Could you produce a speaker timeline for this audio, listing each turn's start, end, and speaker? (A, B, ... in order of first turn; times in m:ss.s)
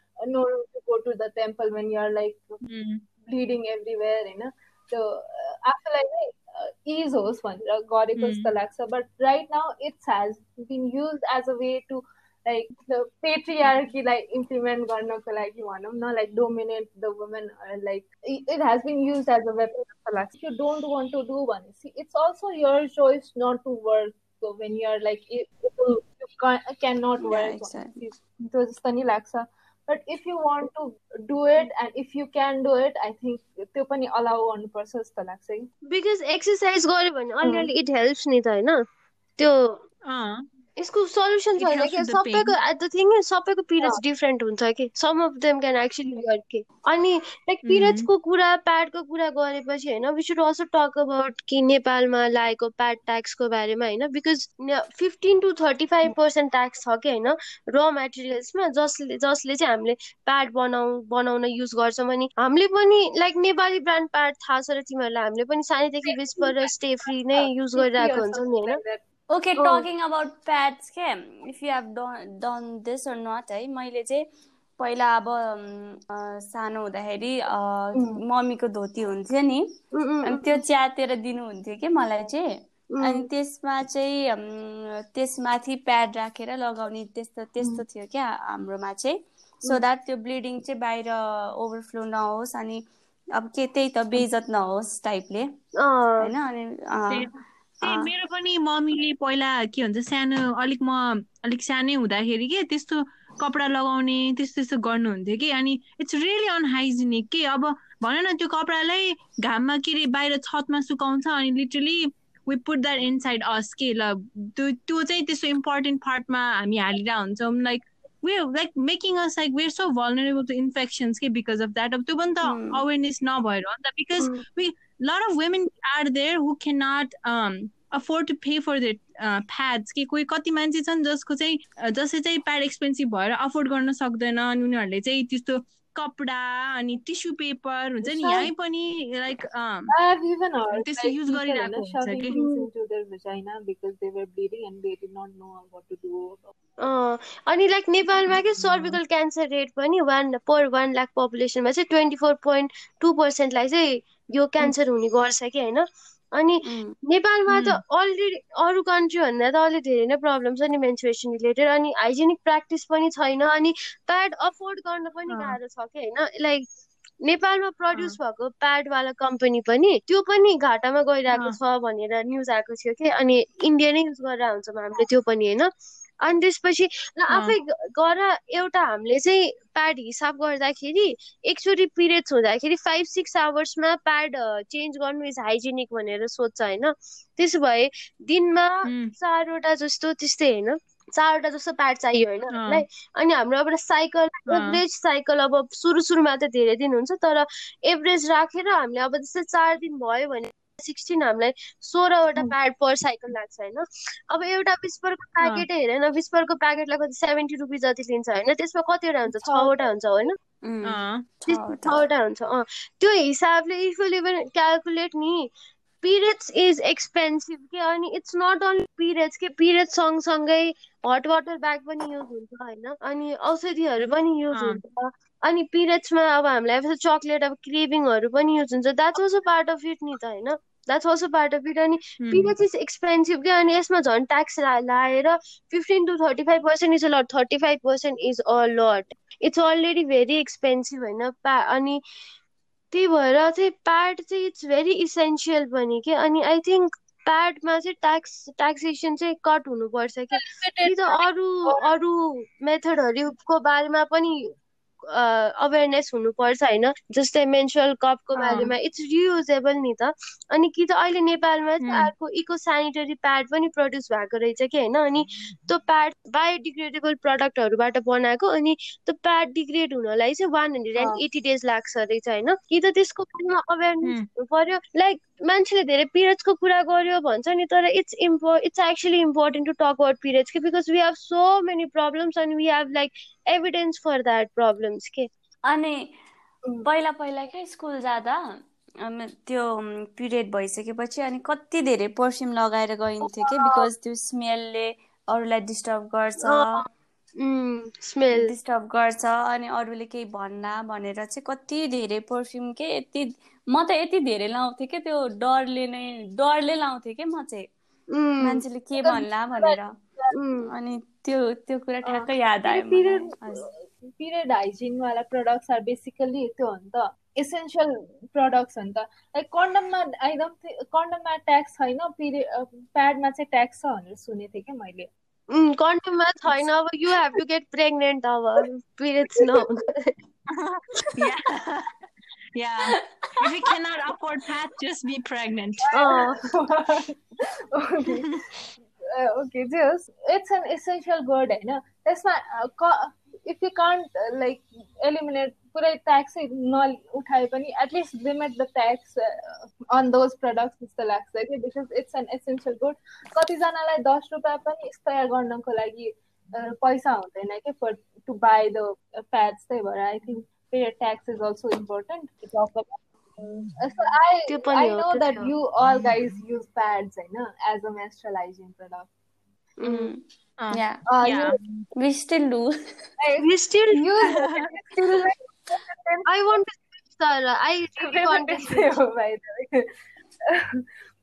0:00.2-0:02.6 A
0:02.6-0:03.0 B
0:03.3-0:35.7 A
0:08.2-0:08.5 B
0:27.2-0:28.0 C
0:35.9-0:38.8 D
0:37.4-0:37.7 A
0:39.4-0:39.8 D
0:40.0-0:40.4 B
0:40.8-1:08.8 D
0:41.6-0:42.5 B
0:47.7-0:48.1 B
1:06.0-1:09.0 A
1:09.3-1:14.2 C
1:09.6-1:09.8 D
1:14.8-1:19.6 C
1:19.9-1:20.6 D
1:20.2-1:22.4 C
1:22.9-1:23.2 D
1:23.0-1:32.8 C
1:33.3-1:35.5 C
1:35.8-1:36.3 D
1:36.2-1:37.3 C
1:37.8-2:19.9 B
1:37.8-1:38.1 C
2:02.4-2:02.8 C
2:18.0-2:18.5 A
2:19.9-2:26.5 A
2:20.7-2:22.3 B
2:22.3-2:22.7 D
2:26.8-2:46.6 D
2:28.6-2:29.0 B
2:36.6-2:36.9 C
2:37.5-2:37.8 B
2:45.3-2:45.6 B
2:47.2-2:55.7 D
2:56.2-3:30.4 D
2:57.3-2:57.5 B
3:08.8-3:09.1 B
3:12.5-3:12.8 B
3:14.5-3:14.8 B
3:29.3-3:29.9 A
3:30.6-3:32.1 C
3:30.8-3:31.2 B
3:31.5-3:35.5 D
3:36.0-4:02.0 D
3:44.5-3:44.8 B
3:52.2-3:52.5 B
4:02.9-4:14.5 D
4:10.3-4:11.9 A
4:15.1-4:45.3 D
4:18.4-4:18.7 B
4:21.8-4:22.1 B
4:45.6-4:46.1 C
4:46.8-4:48.4 C
4:49.0-4:56.8 C
4:53.2-4:53.9 A
4:56.4-4:56.8 D
4:57.4-4:58.5 D
4:58.3-5:07.7 C
5:08.1-5:08.6 D
5:08.4-5:10.0 C
5:09.0-5:10.3 A
5:10.3-5:10.7 D
5:10.7-5:13.7 C
5:12.0-5:25.1 A
5:25.5-5:30.1 D
5:29.4-5:29.6 A
5:30.5-5:31.9 B
5:32.5-5:35.9 B
5:35.9-5:38.4 A
5:35.9-5:36.4 D
5:39.0-6:03.0 A
6:03.7-6:09.1 A
6:04.5-6:05.5 D
6:09.8-6:10.1 D
6:09.8-6:10.2 C
6:10.6-6:11.8 B
6:10.7-6:11.0 C
6:11.0-6:11.6 A
6:12.0-6:12.7 C
6:13.2-6:16.3 A
6:13.4-6:14.0 D
6:14.2-6:14.7 B
6:16.2-6:19.0 D
6:18.0-6:19.9 A
6:20.5-6:20.8 A